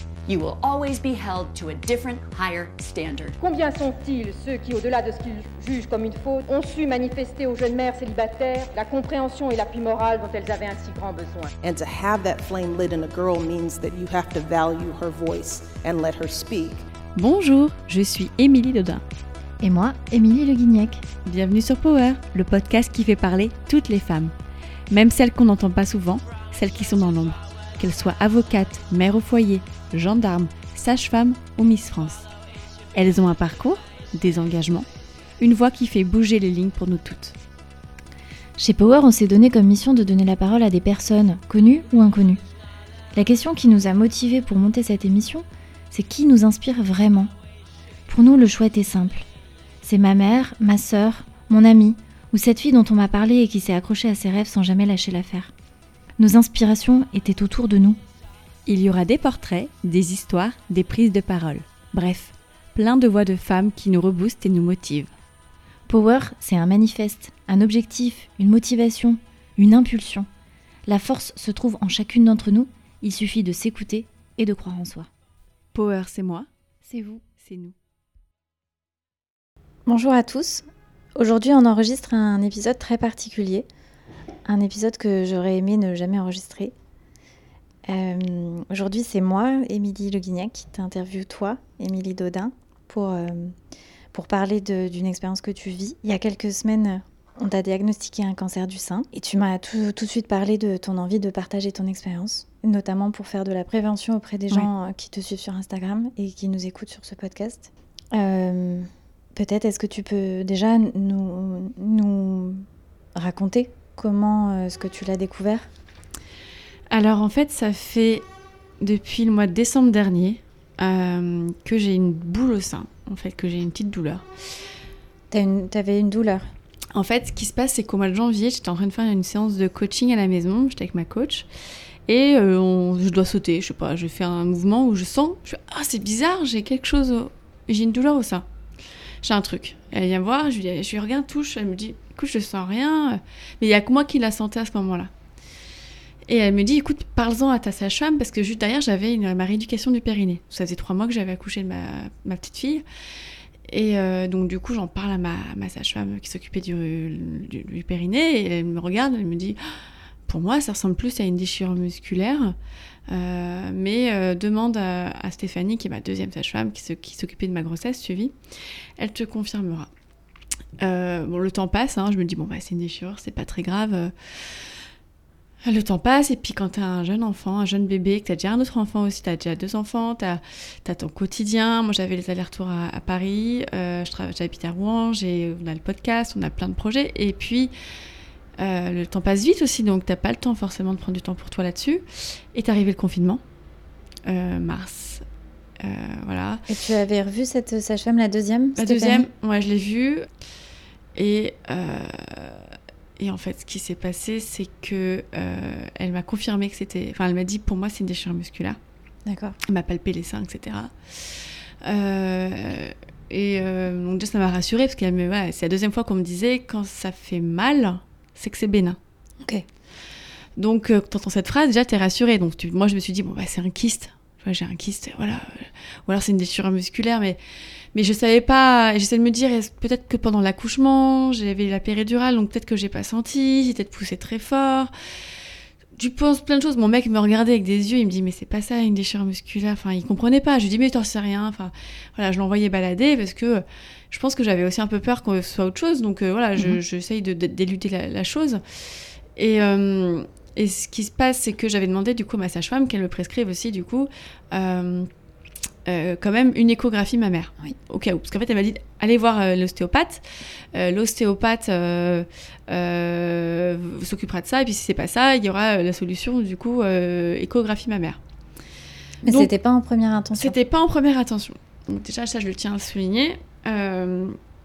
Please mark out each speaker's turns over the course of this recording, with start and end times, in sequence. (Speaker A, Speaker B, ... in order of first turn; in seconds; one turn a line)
Speaker A: 0.3-3.4
Speaker B: 3.4-11.5
Speaker C: 11.6-16.8
Speaker D: 17.1-19.0
Speaker E: 19.6-21.0
Speaker D: 21.2-24.3
Speaker D: 24.9-32.3
Speaker D: 32.9-34.9
Speaker D: 35.4-37.4
Speaker E: 38.6-42.4
Speaker E: 43.1-47.3
Speaker E: 48.1-49.3
Speaker E: 49.8-55.5
Speaker E: 56.2-58.0
Speaker D: 58.6-65.1
Speaker E: 65.9-70.3
Speaker E: 70.9-75.1
Speaker D: 75.7-76.5
Speaker E: 76.8-77.2
Speaker D: 77.2-77.8
Speaker E: 79.8-83.7
Speaker E: 84.5-86.7
Speaker E: 87.9-93.5
Speaker E: 94.1-115.7
Speaker D: 116.9-118.2
Speaker D: 118.8-124.3
Speaker E: 125.3-126.5
Speaker D: 126.9-131.5
Speaker D: 132.1-138.4
Speaker D: 139.2-145.1
Speaker D: 146.3-152.8
Speaker D: 153.7-159.6
Speaker D: 160.3-162.6
Speaker D: 163.1-168.3
Speaker D: 169.0-169.9
Speaker D: 170.8-174.7
Speaker D: 175.6-187.7
Speaker D: 188.6-193.4
Speaker D: 194.2-195.2
Speaker D: 195.8-196.7
Speaker E: 196.7-199.3
Speaker D: 198.8-200.3
Speaker D: 201.1-208.8
Speaker E: 209.2-209.6
Speaker D: 209.6-219.0
Speaker D: 220.6-227.4
Speaker D: 227.9-234.9
Speaker D: 235.9-248.6
Speaker D: 249.3-255.1
Speaker D: 255.8-268.2
Speaker E: 269.2-270.5
Speaker D: 269.2-269.5
Speaker D: 270.4-274.4